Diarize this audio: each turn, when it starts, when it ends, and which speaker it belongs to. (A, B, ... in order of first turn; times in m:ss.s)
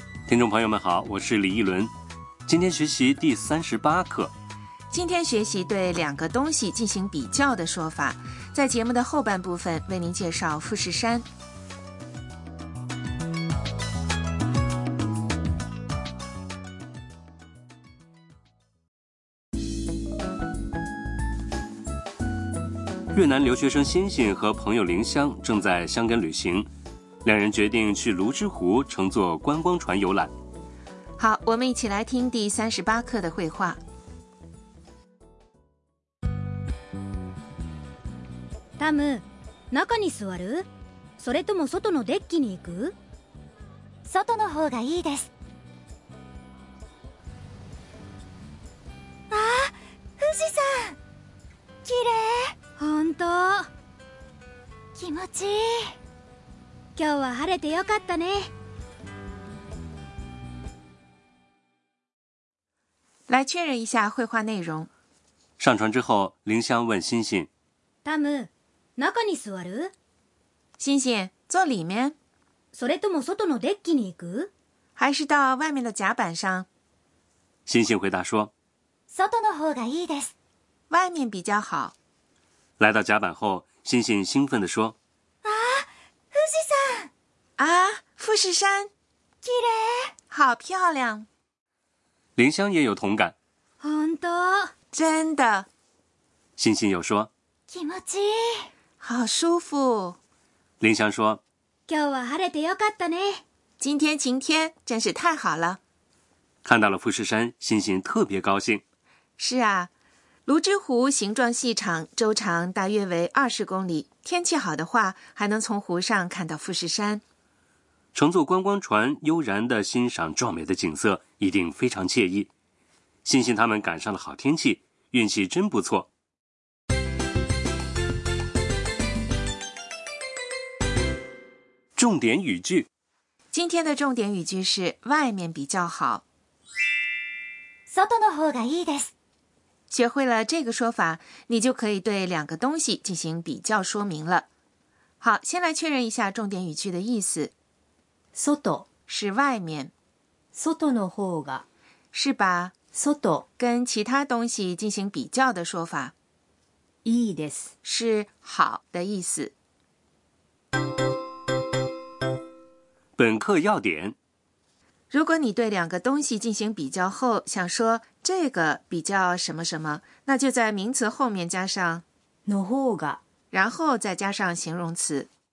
0:00.3-0:01.9 A
0:02.5-0:04.3 A
0:04.9-0:11.3 B
0:23.1-0:26.7 A
0:27.2-0:30.3 A
0:31.2-0:33.8 B
0:38.8-0:40.7 C
0:41.2-0:43.0 C
0:44.1-0:45.3 D
0:49.3-0:51.0 D
0:51.8-0:52.5 D
0:52.8-0:53.7 C
0:55.0-0:55.9 D
0:57.0-0:58.5 C
1:03.3-1:04.9 B
1:05.6-1:07.5 A
1:08.0-1:09.9 C
1:10.8-1:12.2 B
1:12.7-1:14.5 C
1:15.0-1:16.7 B
1:17.7-1:18.5 A
1:19.1-1:20.3 D
1:20.9-1:21.9 B
1:22.8-1:25.0 A
1:25.4-1:27.1 D
1:27.6-1:28.9 B
1:29.4-1:30.0 D
1:30.3-1:31.3 B
1:32.4-1:33.4 A
1:33.8-1:34.7 C
1:34.9-1:35.7 B
1:36.6-1:37.3 A
1:37.7-1:38.6 D
1:39.0-1:40.2 B
1:40.8-1:41.4 A
1:41.9-1:43.4 C
1:43.8-1:45.8 B
1:46.6-1:48.8 A
1:49.4-1:49.9 B
1:50.5-1:57.2 B
1:58.1-2:02.5 A
2:03.2-2:06.1 A
2:12.0-2:12.9 A
2:13.5-2:16.2 B
2:17.9-2:19.1 D
2:19.9-2:24.5 B
2:25.2-2:27.5 B
2:28.3-2:28.9 E
2:29.1-2:29.9 B
2:30.5-2:31.6 E
2:32.1-2:32.7 B
2:32.9-2:33.5 E
2:33.6-2:36.1 B
2:37.0-2:37.7 E
2:37.8-2:39.5 B
2:43.2-2:44.2 A
2:45.1-2:52.0 B
2:52.5-2:53.2 E
2:53.5-2:55.3 B